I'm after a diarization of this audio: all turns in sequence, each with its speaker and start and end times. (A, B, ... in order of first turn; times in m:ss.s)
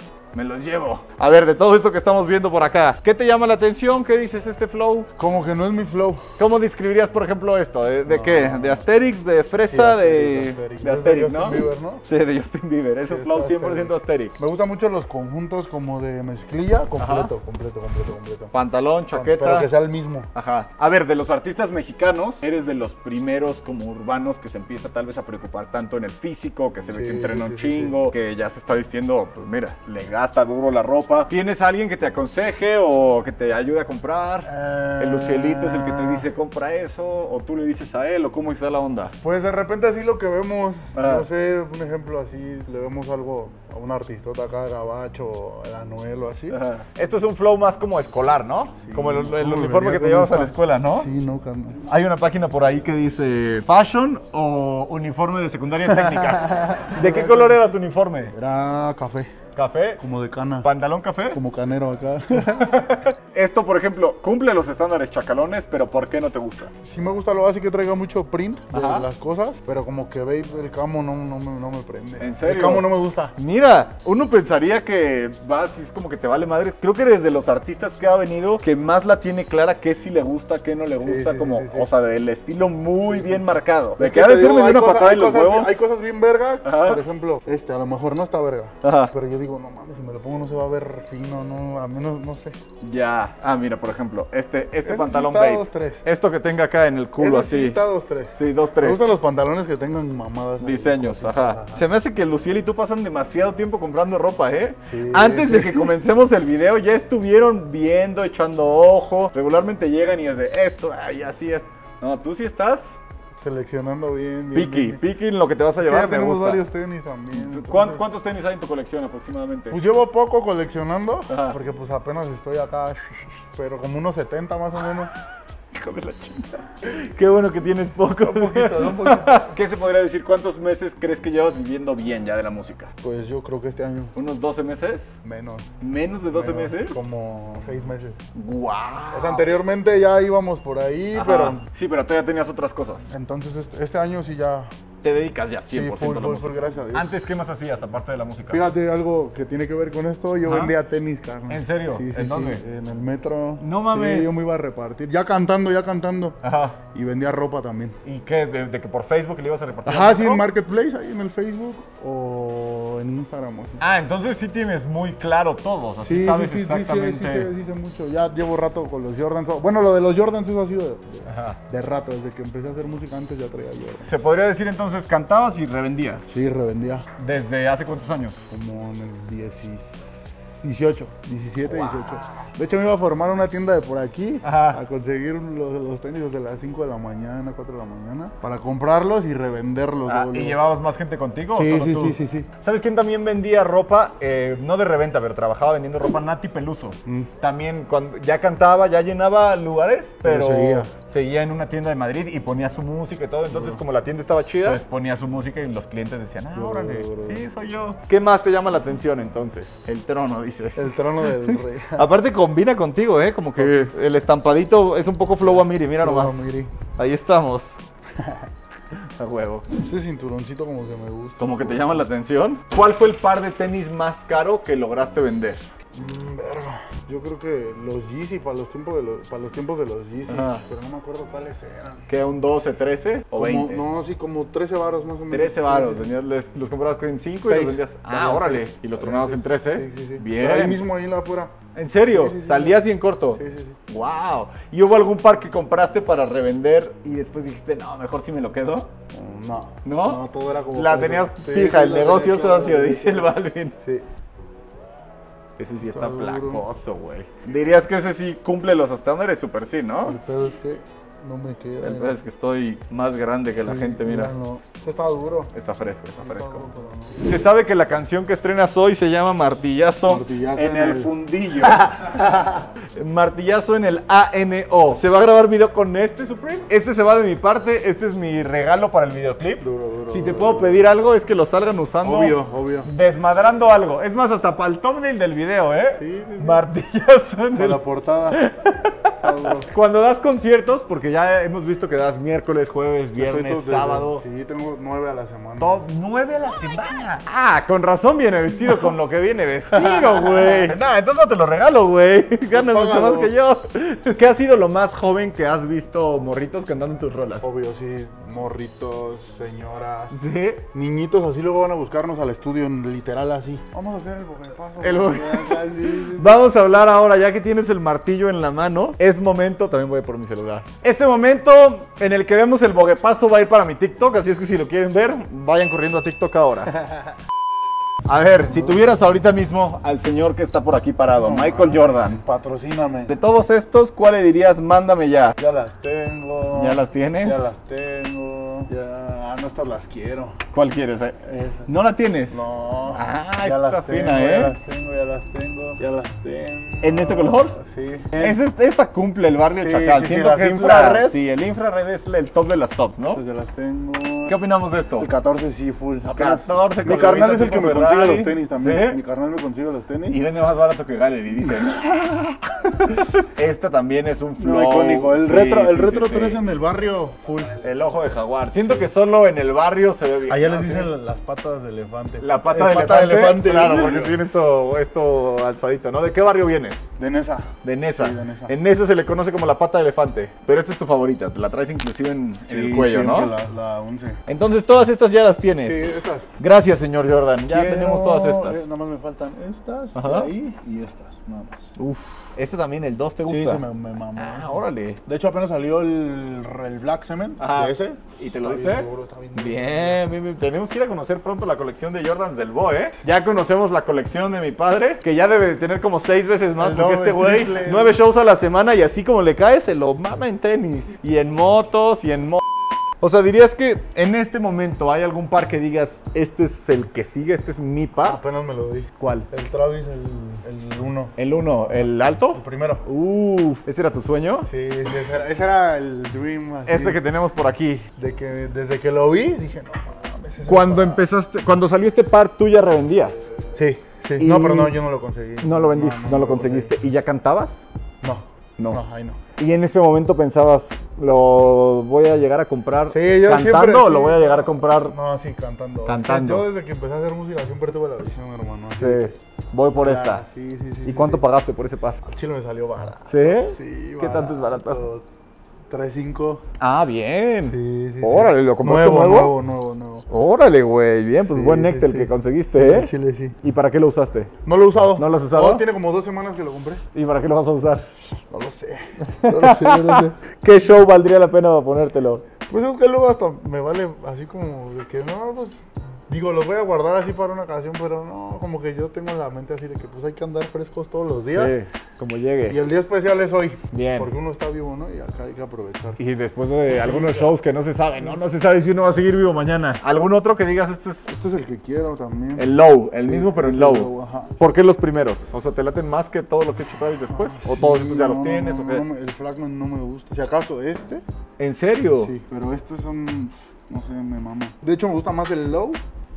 0:00.3-0:05.1 A
0:05.2-0:06.2 B
0:06.4-0:14.4 A
0:08.1-0:08.9 B
0:09.7-0:12.0 B
0:13.0-0:18.5 B
0:17.0-0:17.3 A
0:18.5-0:19.7 A
0:19.1-0:20.3 B
0:20.3-0:39.2 A
0:26.9-0:28.1 B
0:34.4-0:36.3 B
0:39.2-0:46.6 B
0:41.0-0:41.2 A
0:46.5-0:51.1 A
0:48.8-0:51.8 B
0:51.9-0:58.3 A
0:55.9-0:57.7 B
0:58.3-0:59.3 B
0:59.6-1:00.0 A
1:00.0-1:00.7 B
1:00.6-1:01.4 A
1:01.3-1:02.8 B
1:02.5-1:06.7 A
1:06.8-1:13.4 B
1:08.7-1:09.1 A
1:12.2-1:25.8 A
1:21.0-1:21.9 B
1:23.0-1:32.6 B
1:26.6-1:27.0 A
1:28.8-1:29.1 A
1:32.8-1:37.8 A
1:34.8-1:36.0 B
1:37.2-1:41.8 B
1:38.3-1:39.0 A
1:40.6-1:53.0 A
1:44.9-1:45.9 B
1:53.4-1:55.0 B
1:54.5-1:56.6 A
1:55.8-1:58.0 B
1:57.3-1:59.8 A
1:59.7-2:05.1 B
2:01.3-2:01.6 A
2:05.7-2:12.9 A
2:08.2-2:09.5 B
2:13.0-2:14.1 B
2:14.2-2:15.2 A
2:15.2-2:15.8 B
2:15.8-2:17.0 A
2:16.3-2:18.2 B
2:18.4-2:19.5 A
2:19.1-2:21.6 B
2:21.1-2:23.1 A
2:23.1-2:24.7 B
2:25.0-2:28.7 A
2:25.7-2:27.1 B
2:28.5-2:38.0 B
2:30.5-2:30.7 A
2:31.5-2:32.6 A
2:33.6-2:34.4 A
2:36.4-2:36.8 A
2:38.0-2:40.4 A
2:39.8-2:43.8 B
2:43.8-2:47.5 A
2:46.0-2:54.2 B
2:51.3-2:51.6 A
2:54.0-2:56.3 A
2:56.3-2:57.1 B
2:57.2-2:58.4 A
2:58.5-3:10.6 B
3:01.6-3:02.5 A
3:04.4-3:04.8 A
3:10.1-3:30.8 A
3:11.5-3:12.5 B
3:17.1-3:17.3 B
3:20.2-3:20.9 B
3:23.5-3:23.8 B
3:26.5-3:27.5 B
3:30.8-3:32.1 B
3:32.0-3:36.5 A
3:33.6-3:33.9 B
3:35.4-3:36.7 B
3:37.0-3:37.8 A
3:38.2-3:38.5 B
3:39.0-3:39.7 A
3:39.8-3:42.0 B
3:41.4-3:45.6 A
3:45.9-3:52.0 B
3:50.3-3:50.6 A
3:52.1-3:53.8 A
3:53.4-3:56.1 B
3:55.3-4:00.8 A
3:57.4-4:01.6 B
4:01.8-4:08.9 A
4:02.1-4:03.8 B
4:09.1-4:14.1 B
4:09.8-4:13.8 A
4:15.6-4:20.2 A
4:15.8-4:16.6 B
4:20.0-4:22.2 B
4:21.8-4:24.3 A
4:23.6-4:25.5 B
4:25.5-4:26.6 A
4:26.2-4:27.4 B
4:27.2-4:54.2 A
4:30.1-4:31.1 B
4:39.6-4:40.9 B
4:42.0-4:42.9 B
4:45.9-4:46.7 B
4:47.6-4:48.4 B
4:49.2-4:49.7 B
4:53.2-4:55.8 B
4:55.6-5:07.5 A
4:59.7-5:00.8 B
5:02.5-5:03.3 B
5:07.4-5:10.2 B
5:10.1-5:10.6 A
5:10.7-5:16.4 B
5:14.8-5:26.8 A
5:28.1-5:32.2 A
5:28.4-5:29.0 B
5:31.2-5:33.2 B
5:33.1-5:35.4 A
5:35.4-5:40.4 B
5:36.5-5:37.5 A
5:40.5-5:44.5 A
5:41.2-5:41.7 B
5:42.3-5:48.4 B
5:46.8-5:47.6 A
5:48.1-5:53.2 A
5:49.6-5:51.2 B
5:53.1-5:54.4 B
5:54.3-5:55.1 A
5:55.0-6:00.2 B
5:56.1-5:59.0 A
6:00.1-6:06.4 A
6:01.5-6:02.2 B
6:04.4-6:07.6 B
6:07.6-6:10.9 A
6:08.6-6:08.9 B
6:10.3-6:14.2 B
6:12.2-6:16.9 A
6:17.0-6:18.5 B
6:17.6-6:23.3 A
6:22.5-6:24.2 B
6:24.3-6:25.9 A
6:25.6-6:26.3 B
6:26.4-6:28.6 A
6:27.5-6:31.7 B
6:30.0-6:30.3 A
6:31.8-6:33.6 A
6:33.3-6:40.0 B
6:34.2-6:35.0 A
6:37.4-6:52.4 A
6:46.6-6:48.0 B
6:53.0-6:58.2 A
6:58.0-7:01.2 B
6:59.0-6:59.3 A
7:01.2-7:04.5 A
7:01.7-7:02.8 B
7:04.5-7:07.0 B
7:06.7-7:07.9 A
7:08.0-7:11.0 B
7:10.5-7:13.3 A
7:13.5-7:16.8 B
7:14.2-7:14.8 A
7:15.4-7:17.6 A
7:18.0-7:19.2 B
7:19.4-7:25.0 A
7:22.9-7:29.1 B
7:25.9-7:26.5 A
7:28.7-7:30.2 A
7:29.8-7:31.2 B
7:30.9-7:32.0 A
7:32.0-7:35.1 B
7:33.1-7:34.8 A
7:35.7-7:36.4 B
7:36.6-7:39.3 A
7:37.4-7:40.0 B
7:40.1-7:44.3 A
7:41.2-7:43.4 B
7:44.4-7:46.8 B
7:45.0-7:45.6 A
7:46.9-7:47.9 A
7:48.3-7:50.2 B
7:49.0-7:52.2 A
7:52.5-8:01.6 B
8:01.3-8:02.6 A
8:02.5-8:06.0 B
8:03.7-8:04.1 A
8:06.0-8:11.1 A
8:06.7-8:07.3 B
8:11.1-8:14.4 B
8:12.4-8:18.9 A
8:17.1-8:21.0 B
8:21.4-8:22.1 A
8:22.0-8:25.8 B